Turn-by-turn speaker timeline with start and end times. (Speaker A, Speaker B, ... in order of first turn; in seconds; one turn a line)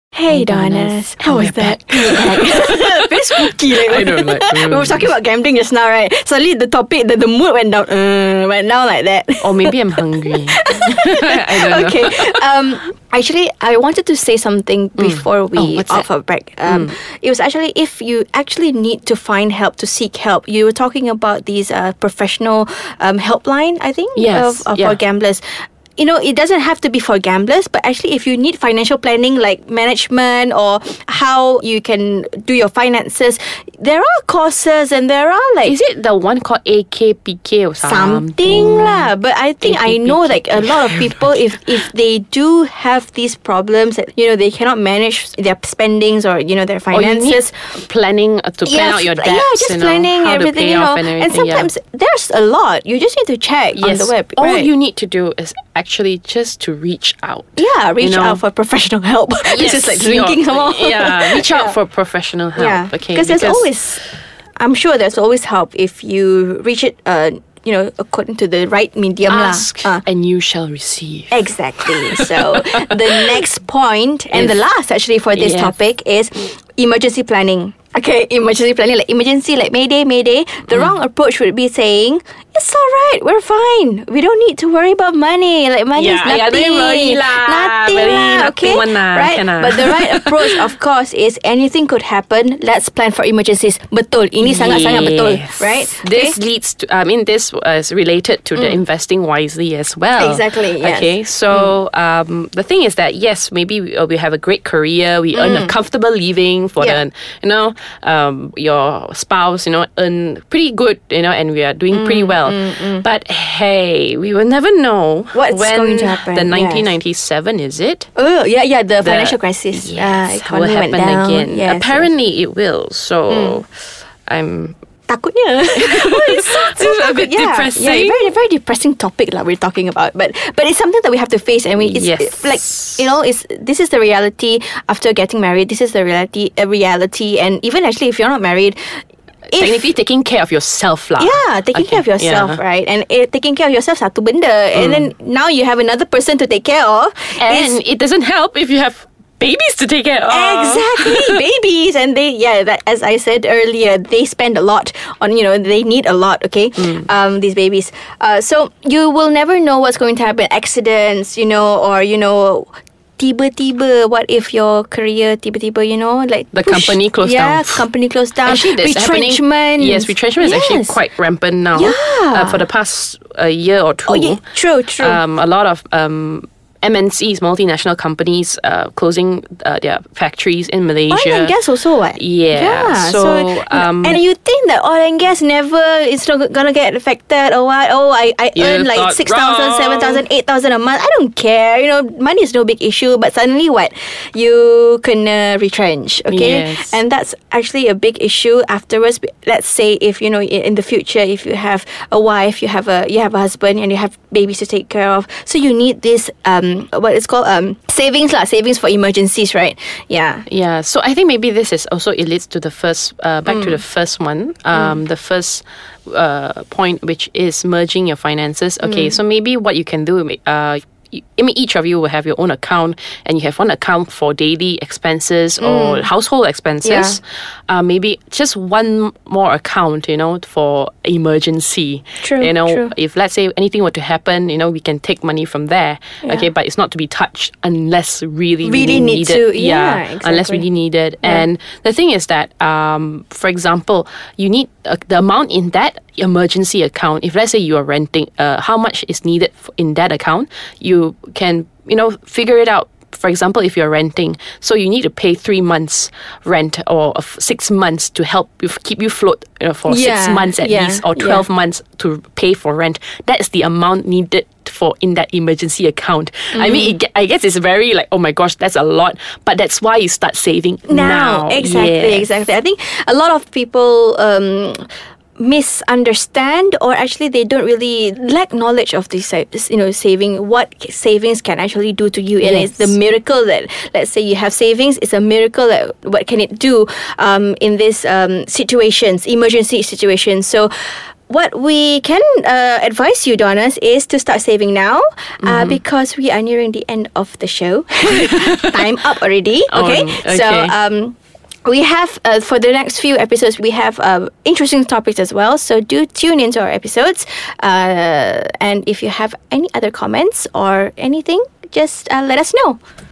Speaker A: 0.1-9.8
Speaker B: 0.3-5.1
Speaker B: 9.4-12.4
Speaker A: 10.5-35.8
Speaker B: 15.0-16.1
Speaker B: 16.6-16.9
Speaker B: 24.1-25.0
Speaker B: 35.6-41.6
Speaker A: 37.8-47.7
Speaker B: 46.9-51.7
Speaker A: 48.6-54.7
Speaker B: 53.8-58.4
Speaker A: 57.6-61.8
Speaker B: 59.4-63.8
Speaker A: 62.5-64.0
Speaker A: 64.6-70.0
Speaker B: 69.3-73.4
Speaker A: 71.3-96.4
Speaker B: 74.3-74.6
Speaker B: 75.3-75.8
Speaker B: 85.9-90.6
Speaker B: 94.4-118.1
Speaker A: 98.6-98.8
Speaker A: 100.2-101.7
Speaker A: 105.3-105.8
Speaker A: 111.9-113.1
Speaker A: 115.3-116.9
Speaker A: 118.2-122.1
Speaker B: 119.0-123.7
Speaker A: 123.3-123.6
Speaker B: 124.3-124.8
Speaker A: 125.1-139.0
Speaker B: 125.8-128.3
Speaker B: 131.8-133.1
Speaker A: 139.5-139.9
Speaker B: 139.5-142.6
Speaker A: 141.2-147.8
Speaker B: 144.8-145.1
Speaker B: 147.4-151.4
Speaker A: 150.3-171.0
Speaker B: 156.8-157.1
Speaker B: 166.5-167.9
Speaker B: 168.4-174.4
Speaker A: 171.7-172.7
Speaker A: 174.1-175.2
Speaker B: 175.0-181.6
Speaker A: 181.1-210.5
Speaker B: 182.1-184.2
Speaker B: 188.6-190.2
Speaker B: 196.3-197.0
Speaker B: 210.5-272.3
Speaker A: 213.5-213.8
Speaker A: 214.7-215.0
Speaker A: 218.8-219.1
Speaker A: 225.6-226.1
Speaker A: 226.8-227.2
Speaker A: 232.2-232.9
Speaker A: 236.2-236.5
Speaker A: 238.6-240.6
Speaker A: 259.9-261.4
Speaker A: 266.5-267.0
Speaker A: 270.9-290.7
Speaker B: 282.4-282.9
Speaker A: 291.3-312.8
Speaker B: 295.4-295.8
Speaker B: 298.1-298.9
Speaker B: 299.7-300.8